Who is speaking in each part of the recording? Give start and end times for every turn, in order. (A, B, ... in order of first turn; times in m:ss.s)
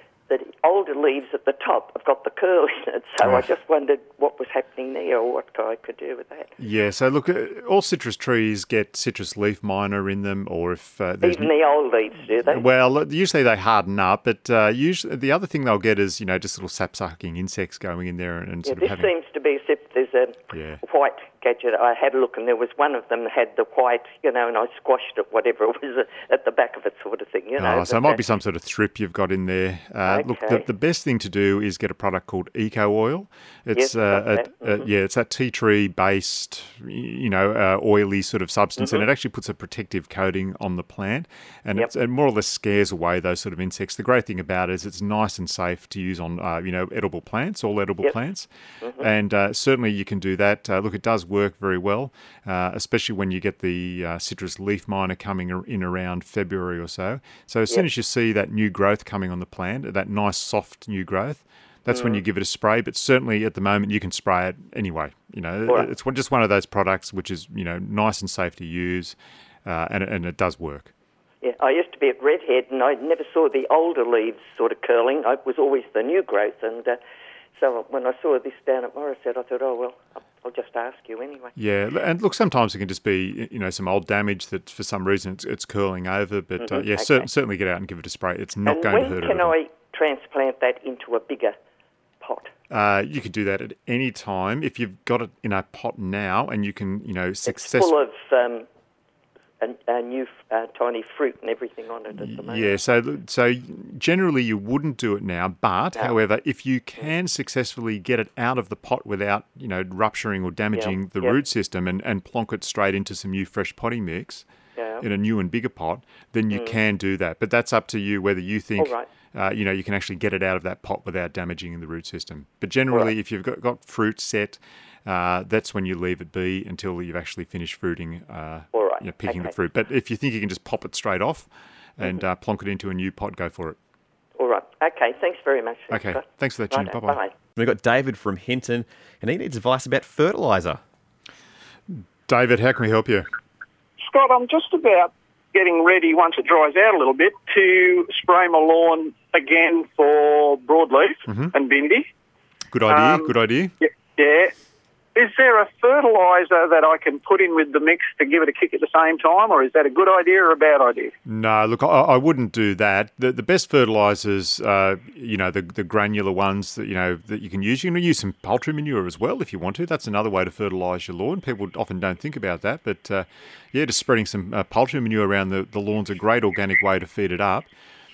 0:00.3-0:06.5 A
0:03.2-0:03.5 B
0:06.6-0:11.5 B
0:11.2-0:12.7 A
0:12.4-0:19.1 B
0:18.6-0:28.2 A
0:20.5-0:20.8 B
0:27.6-1:10.9 B
0:30.1-0:30.6 A
0:33.7-0:34.9 A
0:38.8-0:39.0 A
0:48.8-0:49.1 A
1:01.9-1:02.2 A
1:11.4-1:17.0 A
1:17.6-1:21.5 A
1:21.6-1:29.5 B
1:26.6-1:27.3 A
1:28.6-1:31.6 A
1:32.2-1:32.5 A
1:32.7-1:37.9 B
1:37.5-1:38.7 A
1:39.6-1:42.8 A
1:42.2-1:54.4 B
1:50.7-1:51.4 A
1:54.8-1:55.1 A
1:55.0-2:13.8 B
1:56.5-1:56.8 A
1:58.8-1:59.1 A
2:08.7-2:09.5 A
2:14.4-2:17.3 A
2:15.9-2:17.2 B
2:17.6-2:20.8 C
2:21.9-2:23.3 B
2:24.0-2:32.1 D
2:32.7-2:33.7 B
2:32.9-2:34.5 D
2:35.2-2:41.1 D
2:41.3-2:57.7 B